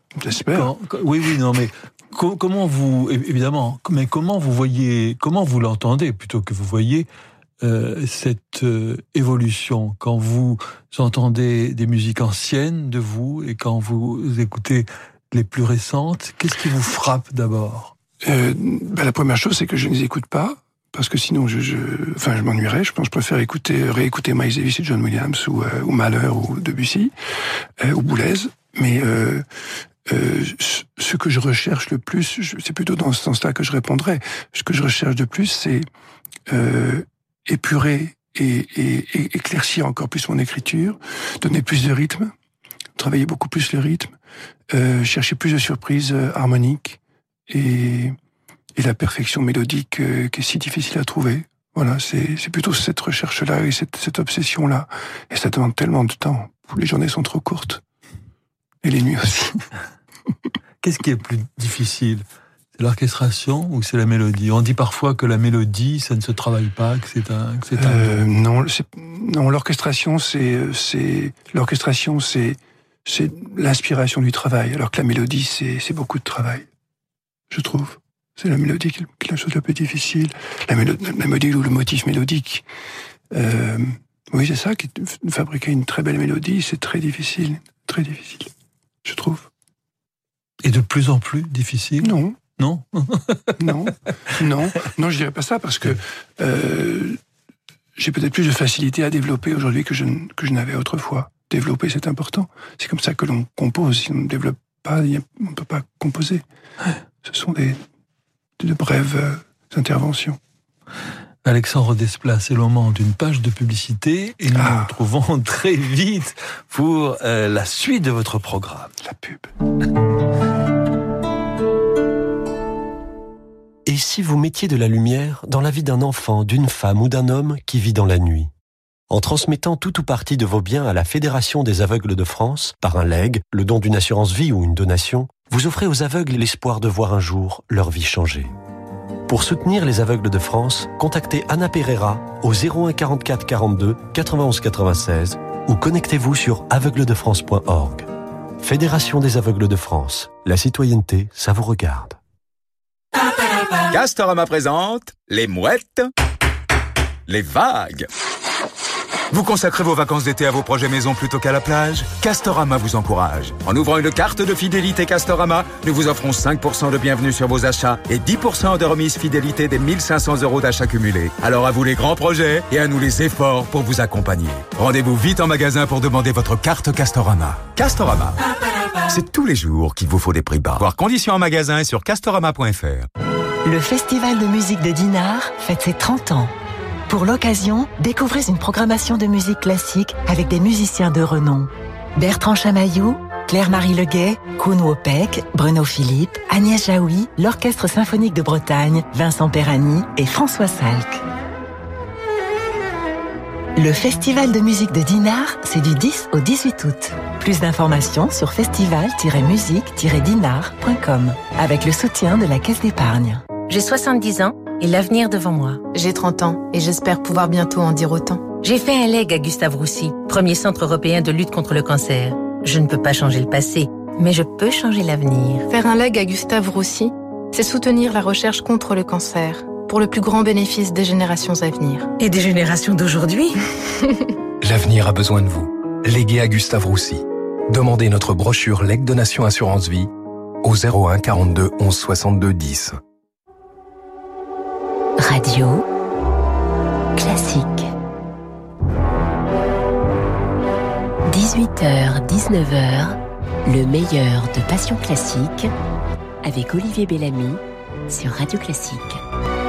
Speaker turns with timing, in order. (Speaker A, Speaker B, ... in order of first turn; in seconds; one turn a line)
Speaker A: 0.2-0.7
Speaker B: 0.5-7.1
Speaker B: 7.6-18.0
Speaker A: 18.2-27.1
Speaker A: 27.8-29.5
Speaker A: 30.1-35.9
Speaker A: 36.5-42.3
Speaker A: 43.0-44.1
Speaker A: 44.7-48.2
Speaker A: 48.8-57.8
Speaker A: 58.8-59.6
Speaker B: 60.8-62.2
Speaker B: 62.8-68.2
Speaker A: 67.8-76.7
Speaker A: 77.5-82.7
Speaker A: 83.3-88.5
Speaker A: 89.0-89.5
Speaker B: 90.6-93.8
Speaker A: 92.0-92.4
Speaker A: 93.6-97.2
Speaker A: 98.0-106.4
Speaker A: 107.2-107.8
Speaker A: 108.6-110.4
Speaker B: 111.5-118.9
Speaker A: 114.5-115.0
Speaker A: 119.0-119.5
Speaker C: 123.9-128.5
Speaker C: 129.1-138.5
Speaker C: 139.3-148.1
Speaker C: 148.6-152.2
Speaker D: 153.9-156.1
Speaker D: 157.3-158.1
Speaker D: 159.3-178.4
Speaker D: 179.1-183.1
Speaker E: 183.7-186.5
Speaker E: 187.1-201.2
Speaker E: 203.8-213.5
Speaker F: 213.7-215.8
Speaker G: 215.9-218.5
Speaker F: 218.6-225.7
Speaker G: 225.7-232.1
Speaker F: 232.2-233.6
Speaker H: 234.6-240.1
Speaker H: 240.6-243.0
Speaker I: 245.2-245.9
Speaker I: 247.2-247.9
Speaker I: 251.3-255.7
Speaker I: 256.4-259.2